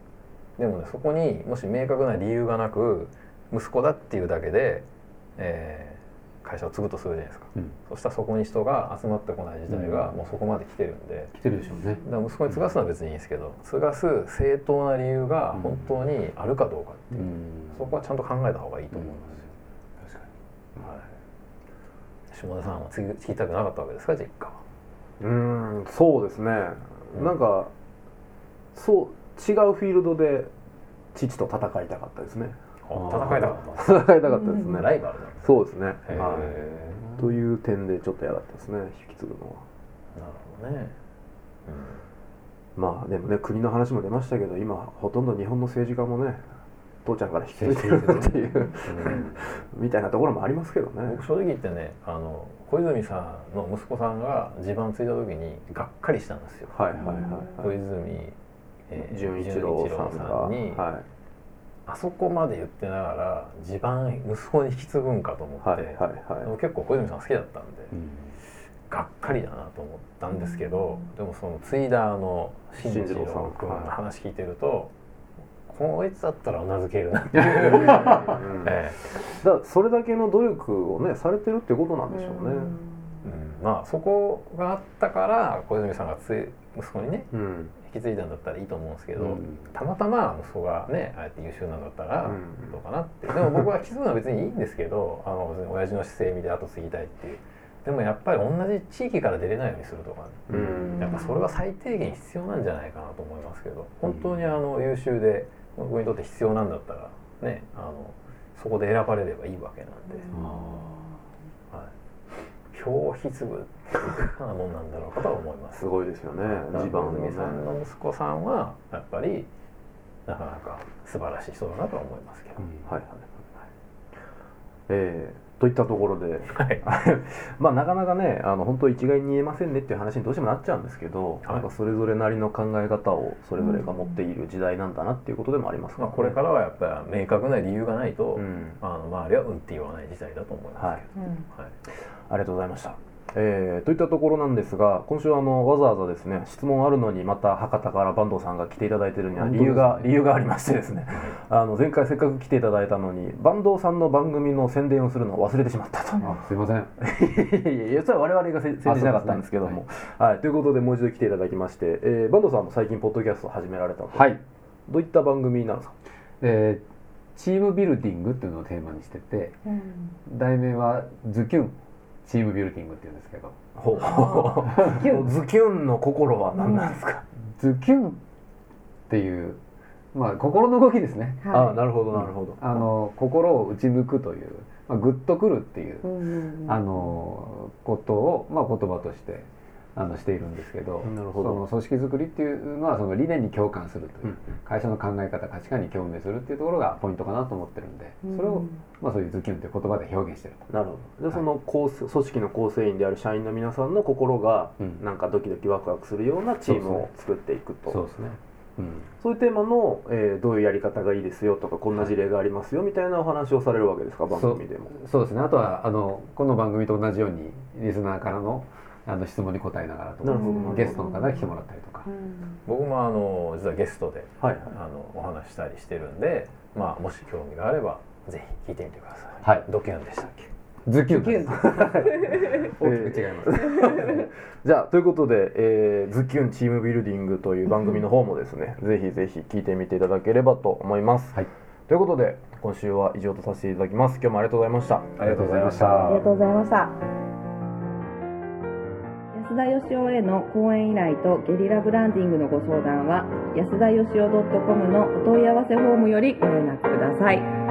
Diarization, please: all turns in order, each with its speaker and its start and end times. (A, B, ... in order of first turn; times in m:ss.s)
0:00.6-0:11.4 A
0:09.7-0:10.2 B
0:11.3-0:12.7 B
0:12.0-0:19.5 A
0:15.5-0:15.9 B
0:17.1-0:18.0 B
0:18.9-0:19.4 B
0:20.0-0:20.3 B
0:20.8-0:21.0 A
0:22.3-0:24.6 A
0:25.2-0:27.7 C
0:28.7-0:30.5 C
0:31.1-0:36.6 C
0:32.8-0:34.0 A
0:32.9-0:33.6 B
0:34.3-0:34.8 D
0:34.6-0:37.0 A
0:37.1-0:39.6 C
0:40.2-0:41.0 A
0:41.7-0:42.0 A
0:42.8-0:46.4 C
0:47.0-0:51.2 C
0:47.6-0:49.5 B
0:47.7-0:48.3 A
0:51.0-0:56.9 A
0:56.7-0:57.8 C
0:57.0-0:57.5 D
0:57.6-0:58.4 A
0:58.9-1:00.8 A
0:59.0-1:01.0 C
1:01.9-1:07.9 A
1:05.6-1:06.5 C
1:07.9-1:08.4 B
1:08.9-1:14.9 A
1:10.3-1:10.7 D
1:12.8-1:13.9 C
1:15.7-1:19.1 A
1:17.3-1:18.4 B
1:17.8-1:22.7 C
1:22.1-1:23.0 D
1:23.2-1:50.3 A
1:27.3-1:27.7 C
1:29.2-1:29.6 B
1:32.2-1:32.8 C
1:33.3-1:33.7 C
1:40.5-1:41.1 C
1:40.5-1:41.1 B
1:41.0-1:41.4 D
1:44.1-1:44.3 B
1:50.3-1:50.8 D
1:50.3-1:51.1 B
1:52.7-1:55.9 A
1:55.8-1:57.6 C
1:56.4-1:59.5 A
2:00.3-2:02.7 A
2:02.8-2:03.2 C
2:04.9-2:16.4 C
2:06.5-2:06.8 A
2:13.6-2:14.0 D
2:16.0-2:21.7 A
2:18.4-2:18.8 C
2:21.2-2:21.5 D
2:21.9-2:36.3 C
2:29.4-2:30.2 B
2:36.2-2:36.9 B
2:37.0-2:44.3 C
2:38.8-2:39.8 B
2:44.1-2:44.4 B
2:44.9-2:45.9 C
2:46.4-2:46.8 B
2:47.4-2:49.6 B
2:49.7-2:50.1 D
2:50.3-2:53.6 B
2:53.8-2:57.2 C
2:54.1-2:55.2 D
2:54.7-2:55.2 B
2:57.6-2:58.2 B
2:59.1-2:59.6 B
3:00.1-3:06.1 B
3:01.4-3:01.8 D
3:01.5-3:02.6 C
3:06.0-3:06.8 D
3:06.6-3:20.7 B
3:11.0-3:11.6 C
3:18.2-3:18.8 D
3:20.7-3:28.0 C
3:26.6-3:27.1 B
3:27.9-3:29.1 B
3:29.2-3:35.0 C
3:34.3-3:42.1 B
3:40.2-3:41.1 C
3:40.3-3:41.3 D
3:42.1-3:42.6 D
3:42.7-3:50.5 A
3:44.4-3:44.7 C
3:50.9-3:54.2 B
3:51.6-4:05.2 C
4:05.2-4:06.2 A
4:05.2-4:06.3 B
4:06.1-4:07.0 D
4:09.3-4:17.5 D